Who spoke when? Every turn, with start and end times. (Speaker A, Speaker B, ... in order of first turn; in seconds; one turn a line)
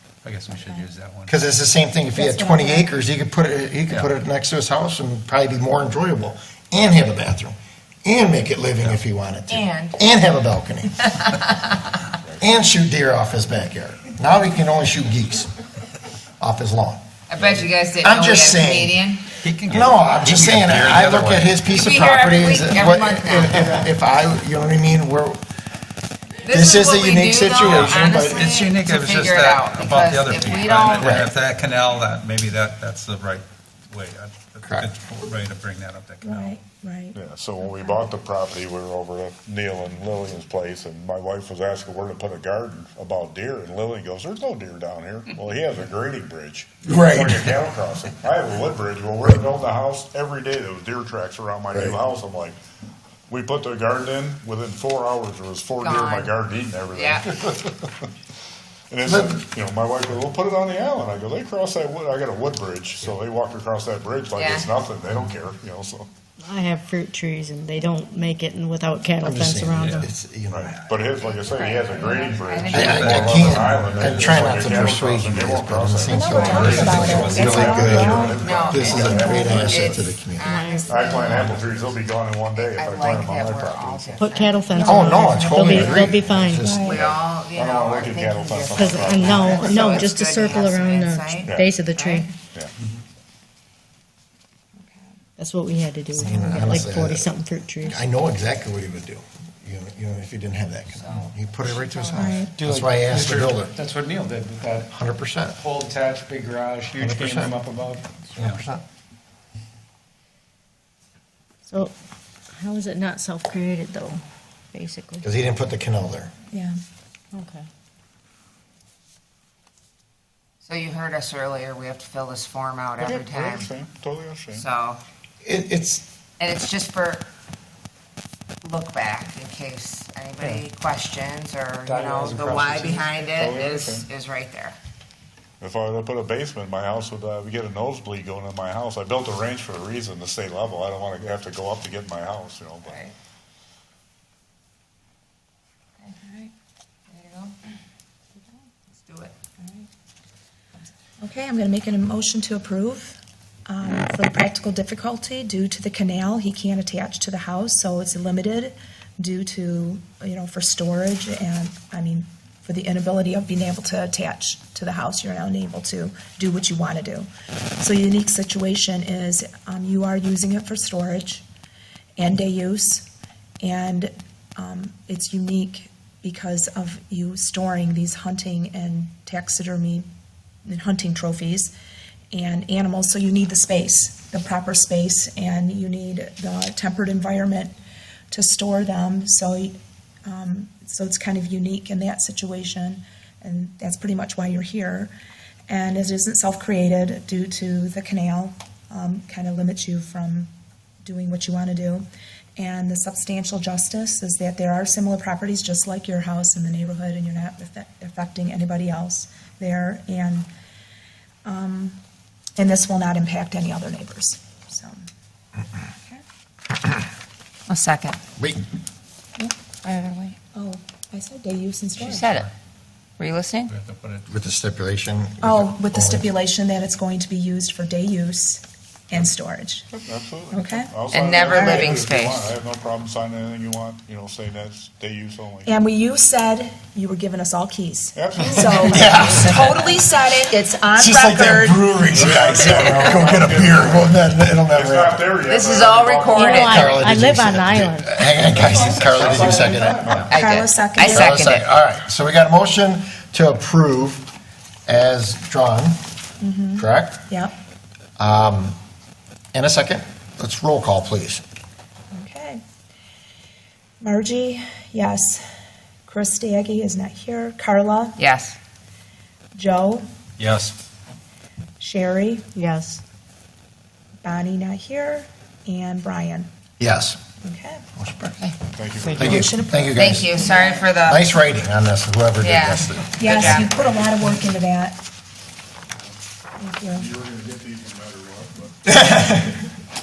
Speaker A: 0.2-1.4
Speaker B: 0.5-0.9
Speaker C: 1.3-11.1
Speaker B: 2.1-2.9
Speaker D: 9.5-10.1
Speaker D: 11.0-11.8
Speaker C: 12.4-15.5
Speaker C: 16.4-17.0
Speaker D: 17.3-19.3
Speaker C: 18.0-19.0
Speaker A: 19.4-21.7
Speaker C: 19.7-25.4
Speaker D: 21.7-23.7
Speaker D: 26.4-31.3
Speaker C: 26.5-28.6
Speaker A: 27.6-36.6
Speaker C: 31.0-31.3
Speaker C: 34.6-34.9
Speaker B: 36.2-38.1
Speaker E: 37.1-52.6
Speaker C: 46.8-47.5
Speaker C: 51.7-52.0
Speaker E: 53.3-58.1
Speaker D: 55.8-56.4
Speaker D: 56.9-57.3
Speaker E: 58.9-66.1
Speaker C: 59.0-59.4
Speaker D: 64.3-64.7
Speaker F: 66.4-70.1
Speaker C: 69.2-70.7
Speaker A: 69.8-70.0
Speaker E: 70.5-80.0
Speaker D: 71.2-74.1
Speaker C: 72.7-80.5
Speaker A: 72.8-74.7
Speaker B: 76.1-79.7
Speaker D: 76.3-76.9
Speaker A: 76.5-78.2
Speaker D: 78.3-81.6
Speaker F: 80.4-81.3
Speaker E: 80.9-84.3
Speaker D: 82.5-85.2
Speaker F: 84.2-86.8
Speaker B: 84.7-85.9
Speaker C: 84.8-86.8
Speaker B: 86.5-87.0
Speaker D: 86.8-92.3
Speaker E: 86.9-90.1
Speaker F: 88.7-92.3
Speaker F: 95.4-98.0
Speaker C: 96.1-97.3
Speaker C: 97.8-103.8
Speaker D: 100.9-102.5
Speaker B: 102.1-102.5
Speaker G: 102.5-104.9
Speaker C: 104.9-105.6
Speaker G: 105.6-108.2
Speaker C: 107.0-107.6
Speaker C: 108.3-108.8
Speaker F: 111.7-111.9
Speaker F: 112.5-114.2
Speaker F: 114.7-115.2
Speaker C: 115.2-116.3
Speaker F: 117.3-117.7
Speaker D: 120.6-123.7
Speaker E: 123.0-124.7
Speaker D: 124.5-125.0
Speaker C: 125.4-126.0
Speaker D: 126.4-127.2
Speaker D: 128.6-134.8
Speaker G: 131.8-133.1
Speaker E: 133.3-134.1
Speaker E: 135.6-143.0
Speaker D: 142.8-143.1
Speaker D: 146.0-146.5
Speaker D: 147.1-147.6
Speaker D: 148.9-149.3
Speaker B: 151.2-167.3
Speaker B: 167.8-171.4
Speaker B: 172.2-173.1
Speaker B: 173.6-180.1
Speaker B: 180.6-181.7
Speaker B: 182.3-187.7
Speaker B: 188.3-195.1
Speaker B: 195.7-200.5
Speaker B: 201.0-210.5
Speaker B: 211.4-212.0
Speaker B: 212.6-215.0
Speaker D: 217.7-218.2
Speaker C: 218.4-218.6
Speaker D: 219.4-220.3
Speaker B: 220.5-222.2
Speaker D: 222.0-222.5
Speaker A: 222.0-222.5
Speaker D: 223.2-223.7
Speaker A: 223.7-224.2
Speaker C: 224.3-226.3
Speaker B: 225.4-229.9
Speaker E: 229.9-235.8
Speaker B: 230.5-230.9
Speaker D: 231.1-232.6
Speaker B: 235.6-241.9
Speaker E: 238.1-239.7
Speaker C: 238.9-239.7
Speaker C: 240.9-245.3
Speaker E: 242.1-247.0
Speaker D: 245.4-247.0
Speaker F: 246.3-248.2
Speaker C: 246.7-250.1
Speaker A: 248.3-250.3
Speaker E: 248.6-250.3
Speaker D: 250.1-251.7
Speaker B: 250.3-251.3
Speaker C: 251.0-254.3
Speaker C: 254.8-256.0
Speaker B: 256.4-257.5
Speaker C: 256.8-257.2
Speaker C: 258.2-258.8
Speaker C: 259.5-261.4
Speaker B: 262.1-262.6
Speaker B: 264.0-265.4
Speaker B: 266.1-268.2
Speaker D: 268.2-268.6
Speaker B: 269.5-270.0
Speaker A: 270.4-270.7
Speaker B: 271.8-272.5
Speaker F: 272.5-273.0
Speaker B: 274.2-276.5
Speaker C: 276.8-277.2
Speaker B: 277.4-277.8
Speaker C: 277.9-278.4
Speaker E: 278.7-279.4
Speaker C: 279.1-283.1
Speaker B: 279.1-280.9
Speaker D: 279.9-281.3
Speaker D: 282.4-283.7
Speaker B: 283.2-285.0
Speaker E: 283.2-284.4
Speaker B: 286.6-287.1
Speaker E: 286.9-289.0
Speaker C: 288.8-289.6